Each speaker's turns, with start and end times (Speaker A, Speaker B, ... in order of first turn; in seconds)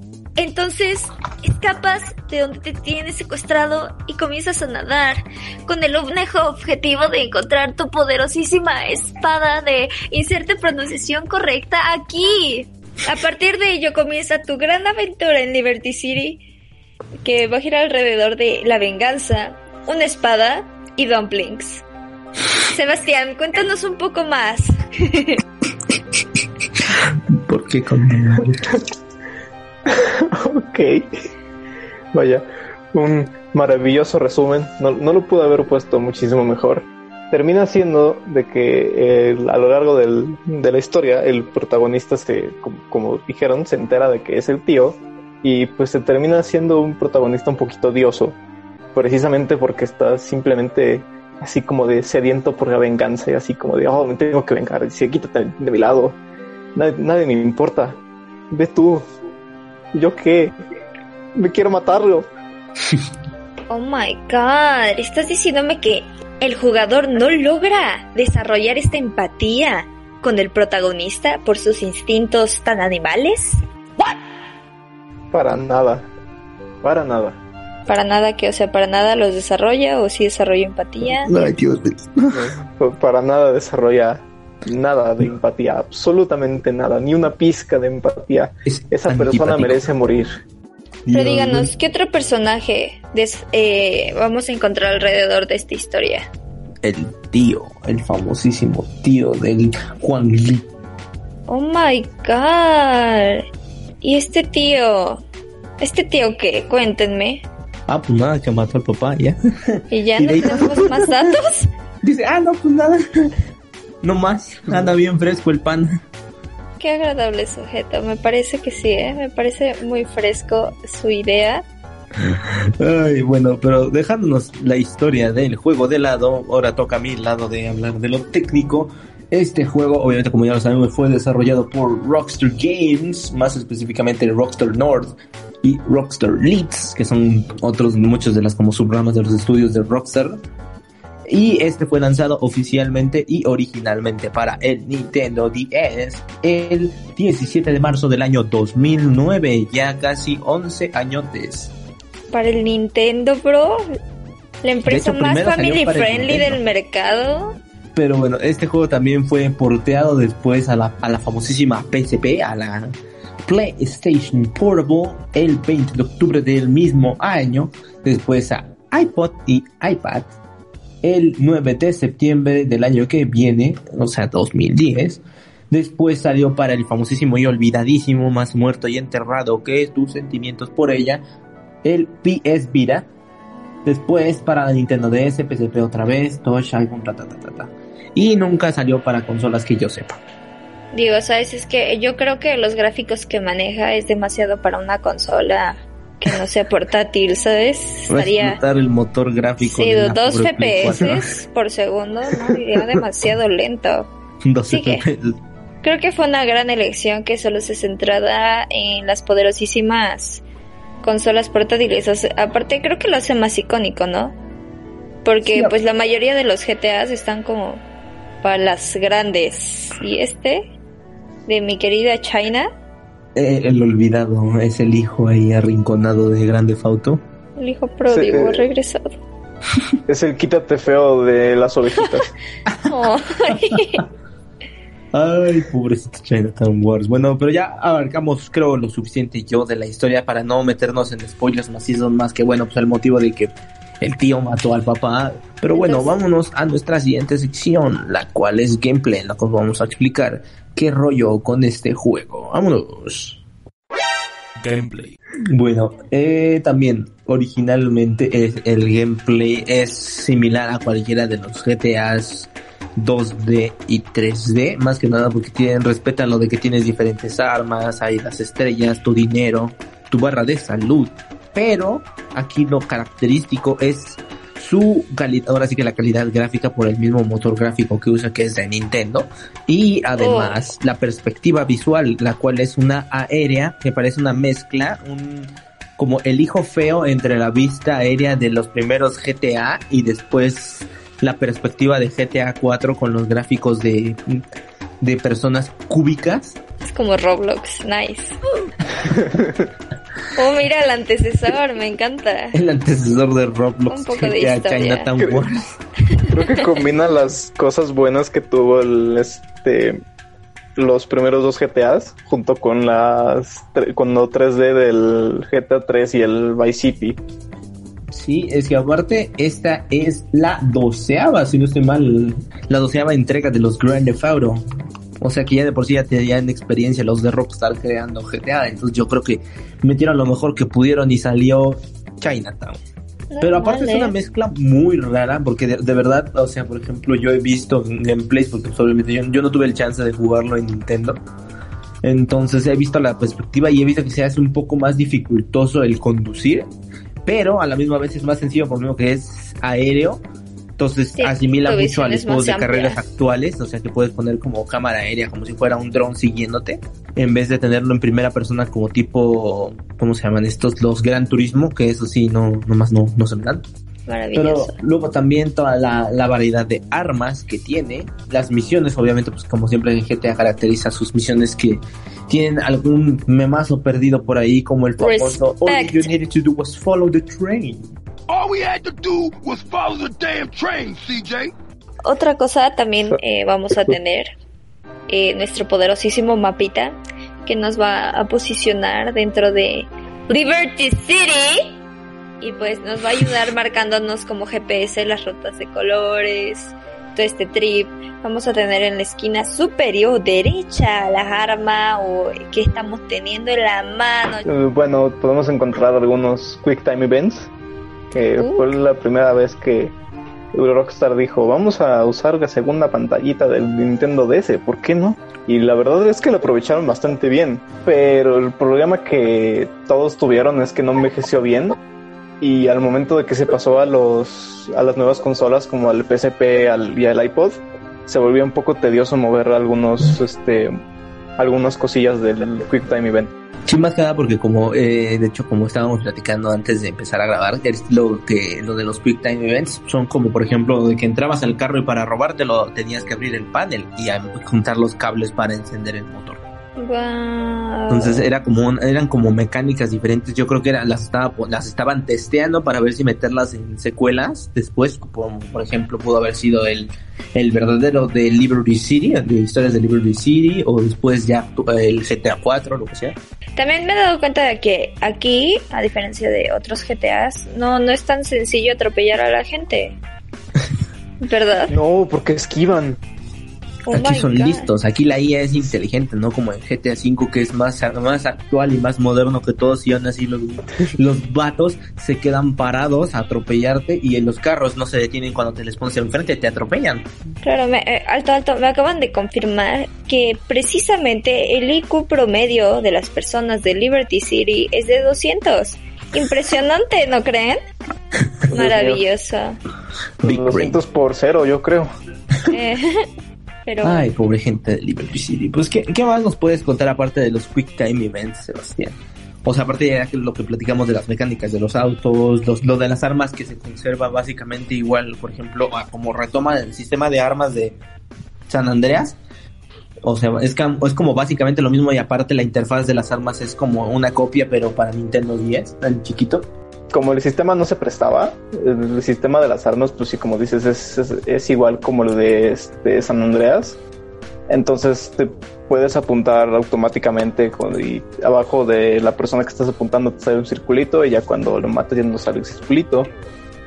Speaker A: 0.4-16.4, 17.2-21.8, 22.7-25.4, 63.7-73.6, 77.9-81.4, 91.1-96.3, 101.5-103.4, 104.0-105.2, 105.8-107.4, 109.9-111.7, 116.8-121.7, 152.3-153.9, 154.6-157.6, 190.9-198.6, 199.6-204.1, 204.7-205.0, 205.8-210.4, 211.0-214.3, 215.2-217.8, 218.4-220.7, 221.5-222.7, 227.6-229.1, 232.9-234.0, 245.7-246.2, 280.2-280.6, 296.9-298.4, 300.3-302.6, 303.9-305.1, 333.3-334.1, 351.2-353.0, 364.1-364.8, 375.0-376.1, 382.0-384.3, 385.1-391.7, 392.4-404.4, 408.4-408.7, 446.8-448.3, 463.6-470.0, 471.2-471.7, 473.9-474.7, 487.4-497.6, 498.5-499.6, 502.5-503.1, 503.6-504.1
Speaker B: 26.8-28.6, 81.1-82.5, 88.7-89.8, 91.1-91.7, 96.8-100.7, 107.9-111.2, 112.0-113.3, 114.0-116.0, 122.2-140.4, 141.3-151.7, 154.8-156.6, 157.9-162.9, 163.4-170.3, 171.0-181.2, 181.8-183.1, 183.8-190.2, 198.1-201.3, 204.4-205.3, 215.4-215.7, 223.3-227.2, 232.7-234.0, 235.1-253.4, 255.4-294.4, 295.0-296.6, 302.5-305.8, 318.1-324.6, 325.2-332.8, 333.4-341.2, 342.0-346.7, 347.2-350.2, 350.8-363.7, 364.3-377.9, 433.7-446.4, 447.9-463.2, 473.9-487.1, 500.2-500.8, 503.8-517.8, 518.5-519.2, 520.0-526.5
Speaker C: 29.9-31.1, 32.1-48.4, 48.9-56.2, 56.8-58.0, 58.5-59.0, 59.9-60.5, 61.4-62.3, 75.3-76.1, 76.8-77.4, 82.3-90.4, 228.1-228.7, 230.1-232.3, 299.0-299.7, 306.3-310.0, 310.8-317.2, 404.4-407.5, 408.1-409.9, 410.5-421.8, 422.4-430.7, 431.4-433.3, 471.7-473.0, 498.5-499.0, 500.2-501.9, 526.9-533.8, 534.5-543.1
Speaker D: 254.7-255.1, 378.3-381.5